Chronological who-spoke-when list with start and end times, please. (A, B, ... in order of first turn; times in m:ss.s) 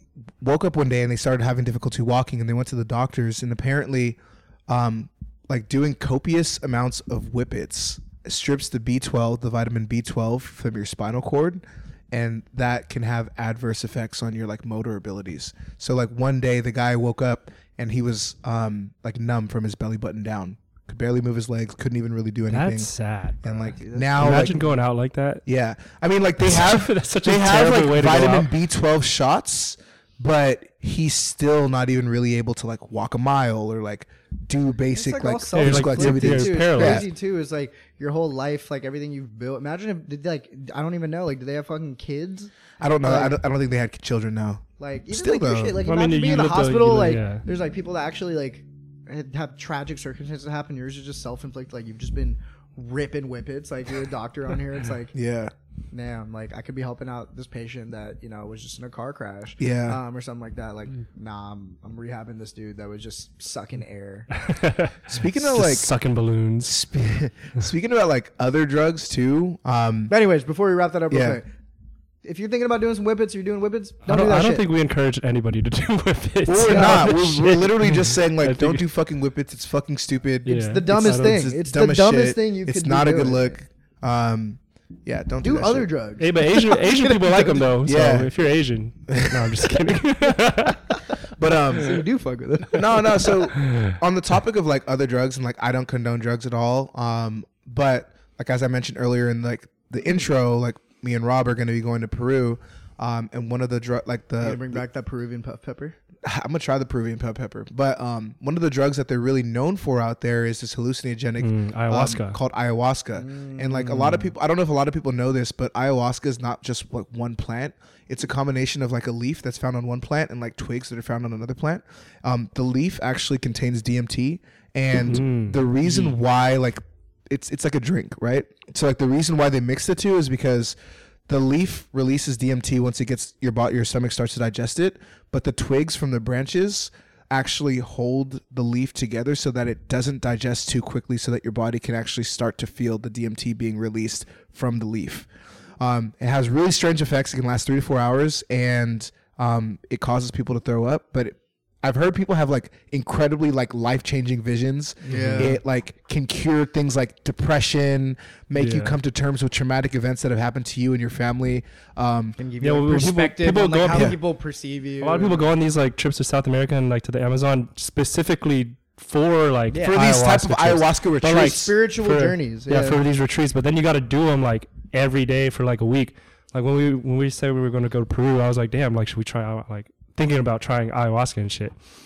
0:00.4-0:22.9 A
0:22.5-0:23.4 B
0:23.4-0:24.6 A
0:23.4-0:24.7 C
0:24.2-0:25.4 B
0:25.4-0:37.1 A
0:26.4-0:28.5 B
0:34.9-0:42.5 C
0:35.5-0:37.0 B
0:42.8-0:45.8 A
0:43.0-0:43.4 C
0:44.8-0:55.1 C
0:45.8-0:47.4 B
0:55.1-0:55.5 A
0:55.9-1:04.3 C
0:59.6-1:00.0 A
1:04.4-1:06.7 B
1:05.1-1:05.9 A
1:06.6-1:10.1 A
1:10.1-1:11.4 C
1:11.1-1:11.4 A
1:12.2-1:14.6 C
1:14.0-1:18.8 B
1:16.4-1:25.9 A
1:16.6-1:17.1 C
1:20.4-1:21.4 B
1:20.5-1:23.6 C
1:25.4-1:27.7 C
1:26.2-1:30.8 B
1:27.8-1:28.3 A
1:29.1-1:29.6 A
1:31.4-1:32.0 A
1:31.7-1:33.4 C
1:32.7-1:44.8 A
1:33.6-1:34.0 B
1:44.4-1:46.0 C
1:46.2-2:10.8 A
1:51.4-1:52.4 B
1:53.2-1:54.3 C
2:04.9-2:06.1 B
2:11.3-2:25.3 A
2:25.8-2:42.4 A
2:35.0-2:35.5 C
2:35.1-2:35.6 B
2:38.5-2:39.0 B
2:42.4-2:45.5 C
2:42.6-2:44.2 B
2:43.9-2:44.2 A
2:45.0-3:01.7 B
2:49.8-2:51.7 A
2:51.2-2:53.0 C